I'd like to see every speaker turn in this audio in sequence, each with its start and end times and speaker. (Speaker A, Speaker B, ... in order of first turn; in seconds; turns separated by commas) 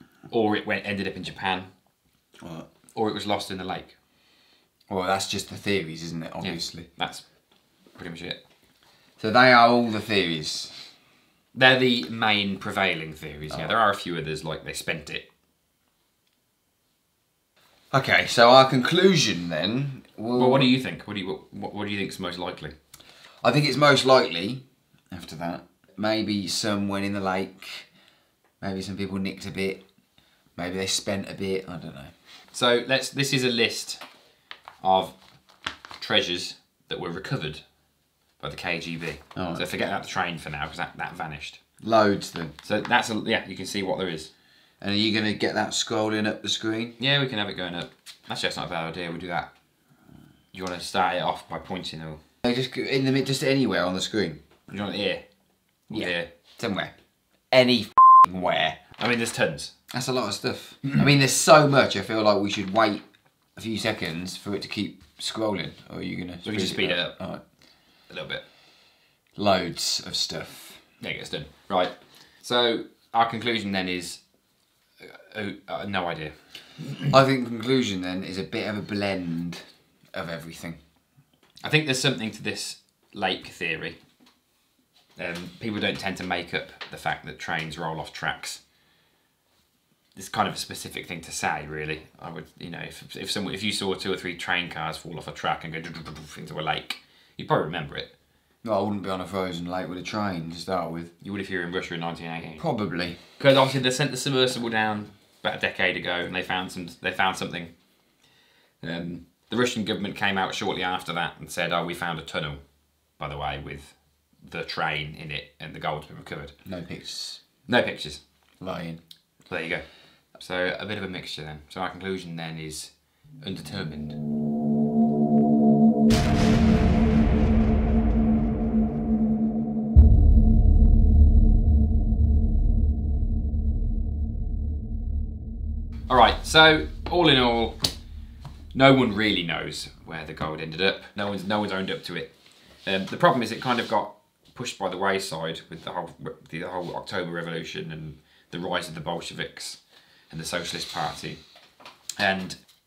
Speaker A: 0.3-1.7, Speaker B: 2.4-2.7, Speaker A: 2.9-4.0, Speaker B: 4.9-6.9, Speaker A: 6.4-7.2, Speaker A: 8.0-8.4, Speaker B: 9.2-10.8, Speaker A: 11.5-15.3, Speaker B: 17.9-20.7, Speaker A: 20.4-22.8, Speaker B: 23.4-27.9, Speaker B: 28.6-29.9, Speaker B: 30.6-32.1, Speaker A: 32.5-34.0, Speaker A: 34.8-35.2, Speaker A: 36.0-37.6, Speaker A: 38.4-41.6, Speaker B: 39.4-39.7, Speaker B: 41.8-42.6, Speaker A: 42.6-44.3, Speaker B: 44.8-47.0, Speaker A: 47.0-49.5, Speaker A: 50.5-52.2, Speaker B: 52.4-54.4, Speaker A: 54.7-55.2, Speaker A: 55.9-56.3, Speaker B: 55.9-57.0, Speaker B: 57.5-58.8, Speaker A: 58.9-59.7, Speaker B: 59.9-67.4, Speaker A: 66.4-67.2, Speaker A: 68.1-68.4, Speaker B: 69.4-70.8, Speaker A: 71.0-74.2, Speaker A: 75.0-77.1, Speaker B: 77.1-80.8, Speaker A: 81.6-84.0, Speaker A: 85.2-88.6, Speaker A: 90.2-98.1, Speaker B: 98.6-101.1, Speaker A: 101.2-102.6, Speaker B: 102.6-103.2, Speaker A: 103.4-107.8, Speaker A: 108.8-112.6, Speaker A: 113.2-116.6, Speaker B: 116.7-117.4, Speaker A: 117.7-118.2, Speaker B: 118.6-119.0, Speaker A: 119.5-124.2, Speaker A: 136.1-137.9, Speaker A: 138.7-142.3, Speaker A: 142.8-151.4, Speaker A: 152.2-152.6